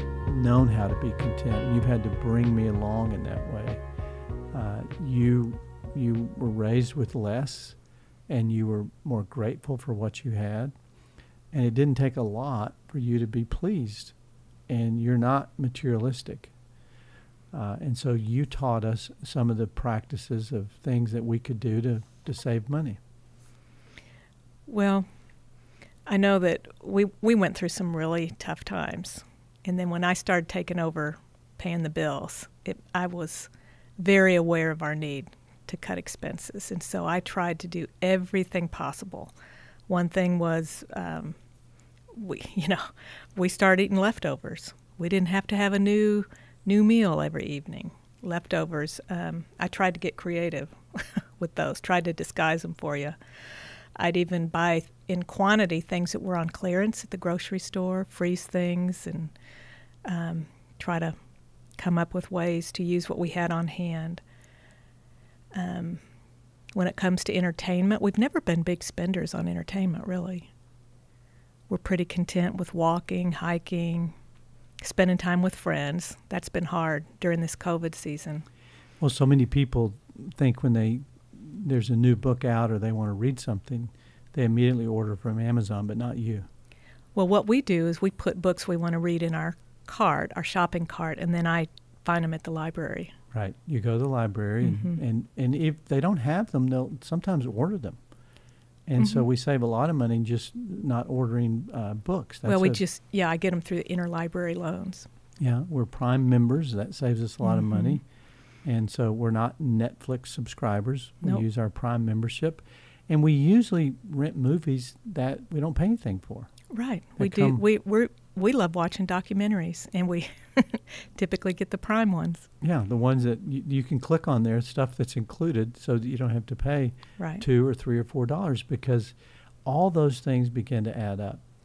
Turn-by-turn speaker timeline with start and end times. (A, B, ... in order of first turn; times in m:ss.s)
0:00.2-0:03.8 A
0:04.5-0:07.8 A
0:08.3-0:10.7 A
0:11.5-0:14.1 A
0:14.7-0:16.5 A
0:17.5-0:23.0 A
0:24.7-0:25.0 B
0:26.1-0:39.3 B
0:39.9-0:41.4 B
0:42.1-0:53.2 B
0:54.0-0:59.3 B
1:00.0-1:01.1 B
1:01.8-1:04.2 B
1:05.5-1:06.0 B
1:06.7-1:10.5 B
1:11.7-1:14.1 B
1:14.8-1:18.4 B
1:19.0-1:26.5 A
1:27.1-1:33.1 B
1:33.3-1:38.0 A
1:34.6-1:35.0 B
1:38.9-1:42.8 A
1:39.0-1:39.2 B
1:42.4-1:45.1 B
1:45.4-1:48.0 A
1:47.4-1:48.0 B
1:48.6-1:56.5 A
1:56.7-2:02.5 B
1:57.2-1:57.6 A
2:02.6-2:09.1 A
2:07.2-2:07.4 B
2:09.6-2:11.4 A